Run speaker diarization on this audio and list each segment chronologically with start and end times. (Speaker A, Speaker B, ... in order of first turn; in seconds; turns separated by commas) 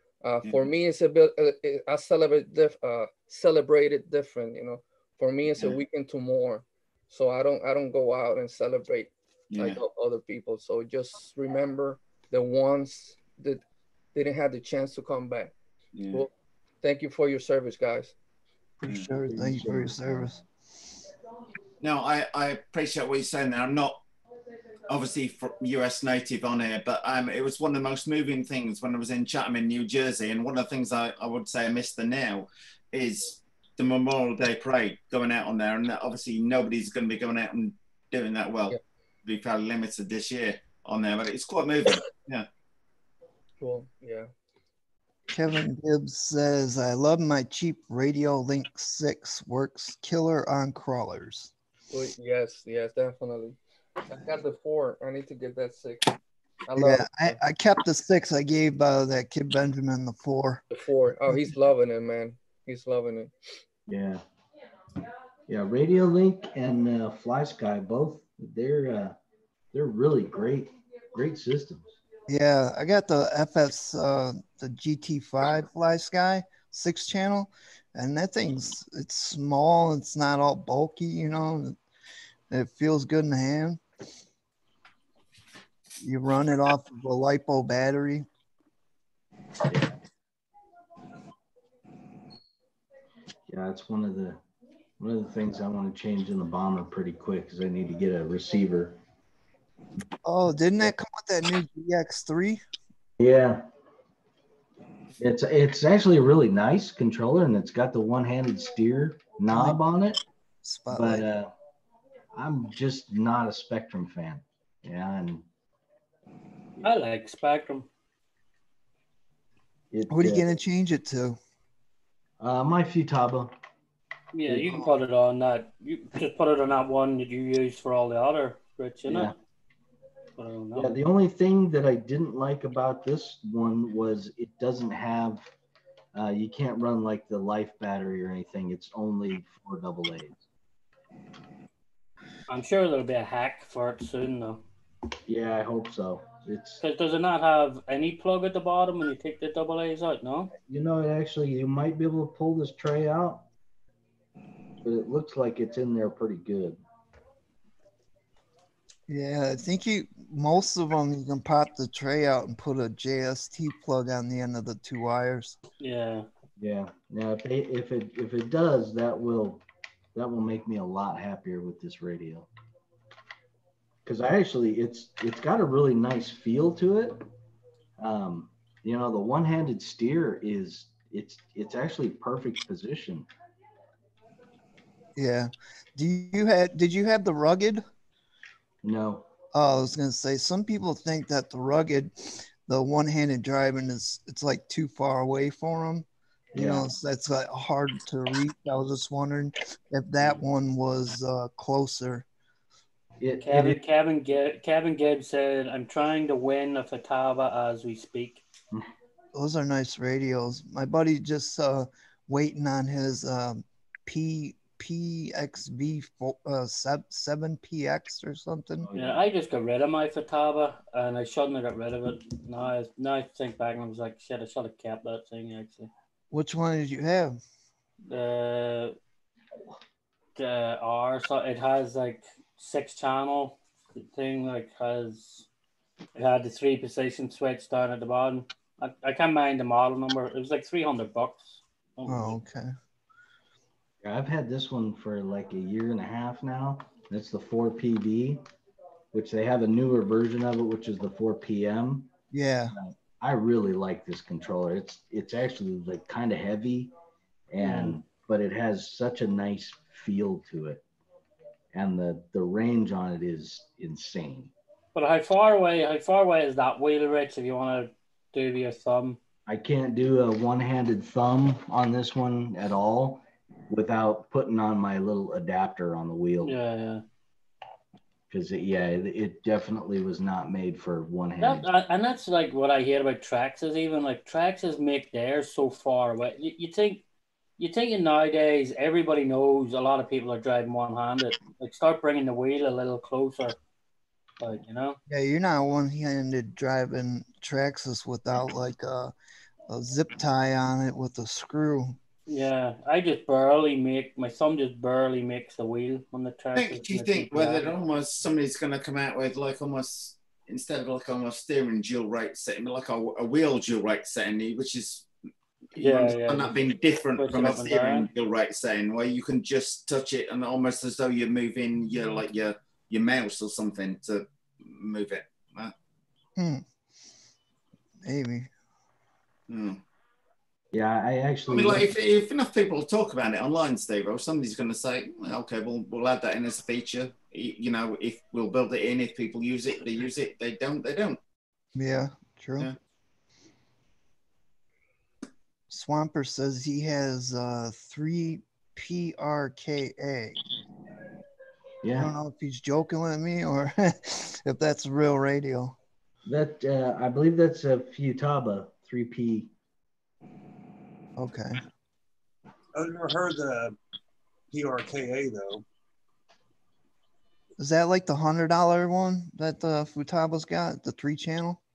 Speaker A: 0.2-13.6, Speaker B: 9.5-9.8, Speaker A: 14.1-15.5, Speaker B: 15.9-16.3, Speaker A: 16.8-18.1, Speaker C: 18.8-20.4, Speaker D: 19.2-20.3, Speaker B: 21.8-24.0, Speaker B: 24.9-42.5, Speaker A: 43.6-44.3, Speaker C: 45.3-51.5, Speaker A: 51.9-53.6, Speaker A: 54.1-56.1, Speaker A: 56.6-57.4, Speaker C: 56.8-60.6, Speaker A: 60.7-63.3, Speaker C: 61.2-61.5, Speaker D: 63.9-64.2, Speaker D: 65.5-69.2, Speaker D: 69.7-72.0, Speaker C: 72.3-81.8, Speaker C: 82.5-83.8, Speaker C: 86.0-88.3, Speaker D: 89.7-89.9, Speaker D: 93.5-94.4, Speaker D: 95.0-99.0, Speaker C: 100.2-102.6, Speaker D: 103.2-103.7, Speaker D: 105.2-110.2, Speaker C: 109.5-109.8, Speaker C: 110.6-111.3, Speaker D: 110.9-111.5, Speaker D: 112.3-115.5, Speaker E: 116.8-117.9, Speaker D: 119.9-120.5, Speaker C: 120.1-121.4, Speaker D: 122.4-123.5, Speaker E: 124.3-129.3, Speaker D: 129.1-129.3, Speaker E: 130.4-130.9, Speaker D: 130.7-135.5, Speaker D: 136.1-140.4, Speaker E: 142.5-144.6, Speaker D: 145.2-146.8, Speaker E: 146.8-150.5, Speaker D: 150.7-153.5, Speaker D: 154.8-156.8, Speaker C: 159.1-165.6, Speaker E: 165.8-166.3, Speaker D: 166.6-169.6, Speaker D: 170.1-172.5, Speaker D: 174.1-177.3, Speaker D: 178.0-183.2, Speaker C: 185.1-187.8, Speaker D: 188.8-189.3, Speaker C: 189.5-202.2, Speaker D: 196.5-196.9, Speaker D: 203.2-203.8, Speaker E: 203.4-208.4, Speaker C: 209.3-218.9, Speaker D: 218.8-219.2, Speaker E: 218.9-225.9, Speaker C: 226.3-227.4, Speaker E: 228.1-228.9, Speaker E: 230.3-235.4, Speaker E: 236.1-241.6, Speaker C: 242.1-242.7, Speaker D: 244.0-248.4, Speaker D: 249.1-252.1, Speaker C: 252.3-252.8, Speaker D: 252.7-256.9, Speaker D: 257.5-260.8, Speaker E: 257.6-258.0, Speaker D: 261.7-264.5, Speaker E: 264.9-269.2, Speaker D: 269.4-276.6, Speaker E: 276.4-277.0, Speaker D: 278.3-281.7, Speaker E: 281.4-287.0, Speaker E: 287.6-293.6, Speaker E: 294.4-295.0, Speaker C: 295.1-299.1, Speaker C: 299.7-302.0, Speaker E: 302.3-307.7, Speaker B: 306.5-315.1, Speaker B: 315.7-325.7, Speaker E: 315.8-316.6, Speaker E: 317.1-318.1, Speaker C: 326.4-326.6, Speaker C: 328.0-328.5, Speaker B: 329.5-329.8, Speaker D: 330.7-331.9, Speaker B: 331.5-341.2, Speaker C: 341.7-342.7, Speaker C: 345.7-350.4, Speaker D: 351.8-352.1, Speaker C: 351.9-355.8, Speaker D: 356.2-359.5, Speaker C: 361.2-361.6, Speaker F: 362.7-363.8, Speaker F: 364.5-365.6, Speaker C: 367.6-371.6